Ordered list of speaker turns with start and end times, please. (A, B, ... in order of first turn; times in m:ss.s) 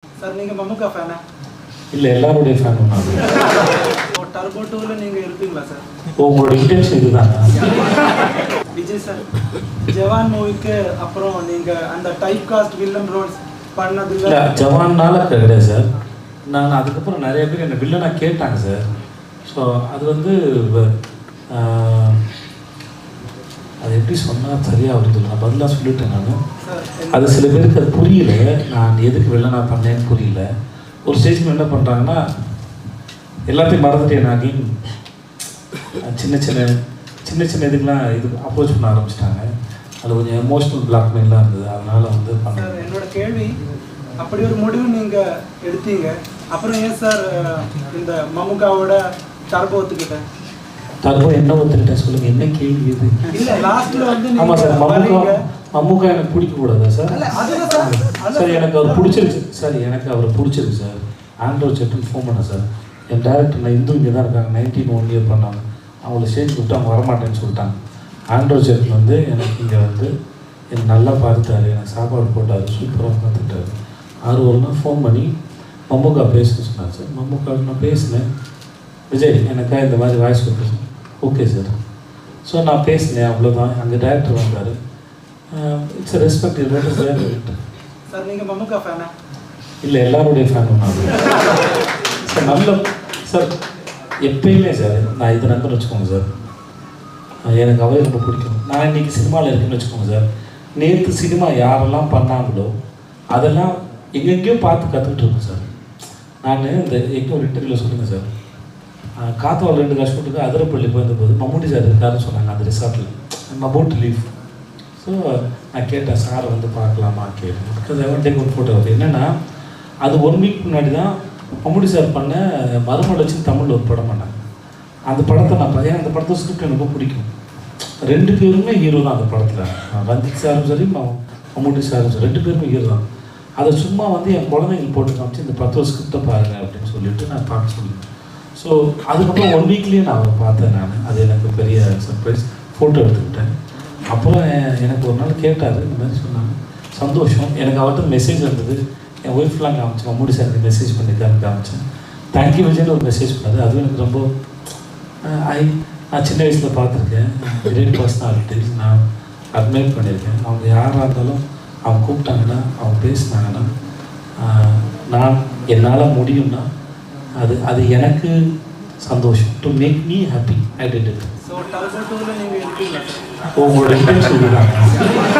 0:00.2-0:01.2 A
0:01.9-0:03.4 B
0:04.0-0:05.8 A
0:06.2-0:07.5 B
0:08.7-0:09.3 A
0:09.8-0:14.5 A
0:14.2-0:15.9 B
0:16.5-0:18.8 B
0:19.4-0:20.9 B
0:21.5-0:22.2 B
0:23.8-0:26.4 B
0:26.6-0:27.4 A
0:27.1-0:30.4 B
0:31.0-0:32.2 B
0:33.5-0:34.6 B
0:36.0-0:36.7 B
0:37.2-0:39.5 B
0:40.0-0:42.8 B
0:42.5-0:43.6 A
0:44.2-0:49.0 A
0:49.5-0:50.2 A
0:51.0-0:53.6 B
0:53.3-0:55.4 A
0:54.4-1:07.8 B
0:57.1-0:59.2 A
1:08.3-1:10.1 B
1:10.7-1:13.7 B
1:14.2-1:15.3 B
1:15.9-1:18.2 B
1:19.1-1:21.7 B
1:22.4-1:24.7 B
1:25.5-1:27.5 B
1:28.1-1:29.1 A
1:29.8-1:31.2 B
1:32.2-1:33.5 B
1:34.2-1:36.2 B
1:37.5-1:40.2 B
1:40.8-1:42.7 B
1:43.3-1:45.7 B
1:46.4-1:48.2 B
1:49.2-1:54.3 B
1:55.7-1:59.3 B
2:00.0-2:01.1 B
2:01.6-2:04.3 B
2:05.1-2:07.3 B
2:08.0-2:13.0 B
2:13.6-2:18.0 B
2:18.6-2:23.5 B
2:24.1-2:31.8 B
2:32.3-2:34.3 B
2:35.3-2:39.0 B
2:39.6-2:43.7 B
2:44.4-2:46.6 B
2:47.4-2:48.3 B
2:49.0-2:51.3 B
2:51.4-2:53.3 A
2:53.5-2:54.9 B